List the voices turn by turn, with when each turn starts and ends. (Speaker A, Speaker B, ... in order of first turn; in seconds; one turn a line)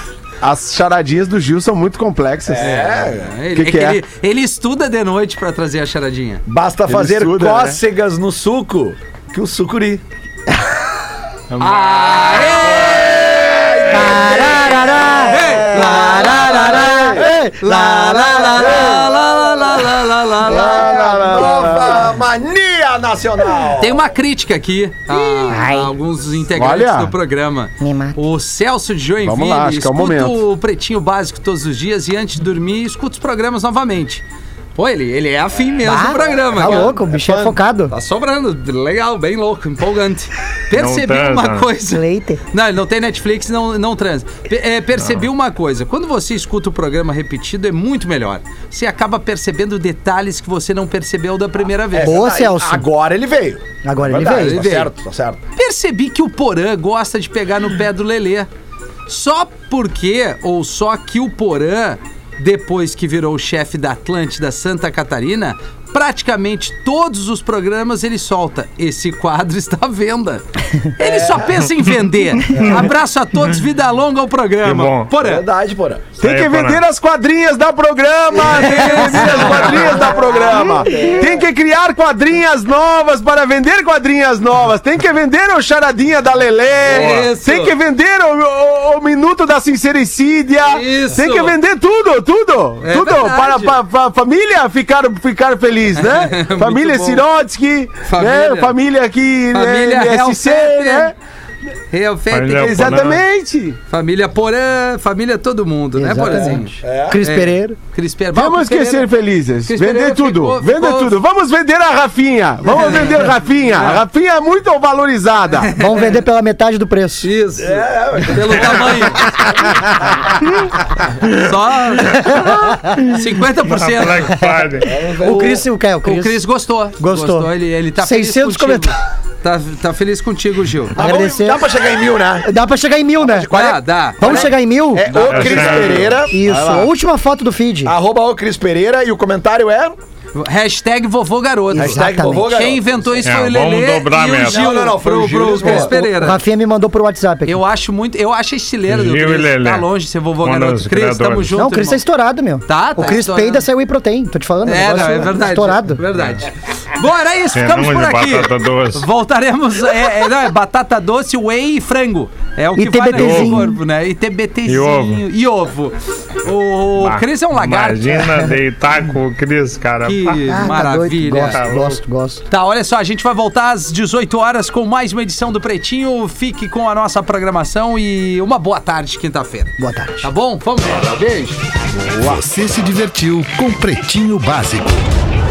Speaker A: 0.4-2.8
Speaker B: 2.5-3.3
Speaker C: 2.6-6.4
Speaker A: 3.5-4.0
Speaker B: 6.5-10.0
Speaker A: 6.9-7.8
Speaker D: 11.5-13.2
Speaker C: 11.6-13.3
Speaker B: 12.8-17.4
Speaker E: 13.9-18.8
Speaker C: 15.2-21.0
Speaker A: 15.4-17.1
Speaker B: 18.4-19.9
Speaker A: 20.4-22.1
Speaker B: 20.4-24.1
Speaker C: 23.8-34.2
Speaker E: 25.2-25.9
Speaker A: 26.5-27.1
Speaker E: 27.8-28.2
Speaker A: 29.2-30.4
Speaker C: 34.7-52.3
Speaker E: 35.8-37.9
Speaker B: 36.4-37.5
Speaker D: 40.7-41.6
Speaker E: 41.9-42.4
Speaker B: 51.9-55.4
Speaker E: 52.0-52.8
Speaker E: 53.8-54.9
Speaker C: 54.2-54.9
Speaker C: 55.5-58.5
Speaker C: 59.1-75.4
Speaker B: 71.0-71.4
Speaker B: 72.5-72.8
Speaker D: 72.5-72.8
Speaker D: 74.6-75.1
Speaker B: 75.2-76.1
Speaker D: 76.2-76.8
Speaker A: 76.2-101.1
Speaker C: 78.3-80.1
Speaker B: 79.3-81.4
Speaker C: 86.8-87.7
Speaker D: 86.9-87.2
Speaker C: 90.6-91.5
Speaker C: 92.8-93.8
Speaker C: 96.0-97.2
Speaker C: 98.0-98.8
Speaker C: 99.5-101.1
Speaker C: 101.9-102.9
Speaker D: 102.3-103.2
Speaker A: 102.5-103.8
Speaker C: 103.9-109.1
Speaker E: 106.0-107.8
Speaker B: 106.8-107.2
Speaker A: 108.3-115.7
Speaker C: 109.6-111.1
Speaker C: 112.7-114.0
Speaker C: 115.6-116.1
Speaker E: 115.7-117.3
Speaker C: 117.2-119.4
Speaker B: 117.6-120.3
Speaker C: 121.2-124.4
Speaker D: 122.3-122.5
Speaker E: 122.3-122.9
Speaker D: 123.6-124.9
Speaker B: 124.8-125.6
Speaker E: 125.2-126.4
Speaker C: 125.2-131.0
Speaker E: 127.0-128.9
Speaker E: 130.9-131.8
Speaker B: 130.9-132.5
Speaker E: 132.4-133.5
Speaker B: 133.2-136.4
Speaker C: 133.5-134.5
Speaker E: 134.2-135.6
Speaker C: 135.1-135.6
Speaker D: 135.1-136.2
Speaker A: 135.4-136.9
Speaker E: 136.3-137.9
Speaker B: 137.8-139.9
Speaker C: 140.3-146.4
Speaker E: 141.7-142.6
Speaker B: 141.7-143.3
Speaker D: 143.2-144.7
Speaker B: 144.4-146.3
Speaker E: 145.6-147.6
Speaker C: 147.4-152.0
Speaker D: 148.9-149.9
Speaker D: 150.4-151.5
Speaker E: 151.5-156.0
Speaker C: 152.7-153.7
Speaker C: 154.6-168.3
Speaker D: 156.1-156.4
Speaker D: 157.5-159.1
Speaker E: 162.7-163.8
Speaker D: 163.1-163.6
Speaker D: 164.7-165.2
Speaker D: 167.0-170.4
Speaker C: 170.0-171.6
Speaker E: 170.4-172.4
Speaker D: 171.4-172.0
Speaker C: 172.5-181.6
Speaker E: 179.8-180.3
Speaker A: 181.9-182.4
Speaker F: 182.2-185.1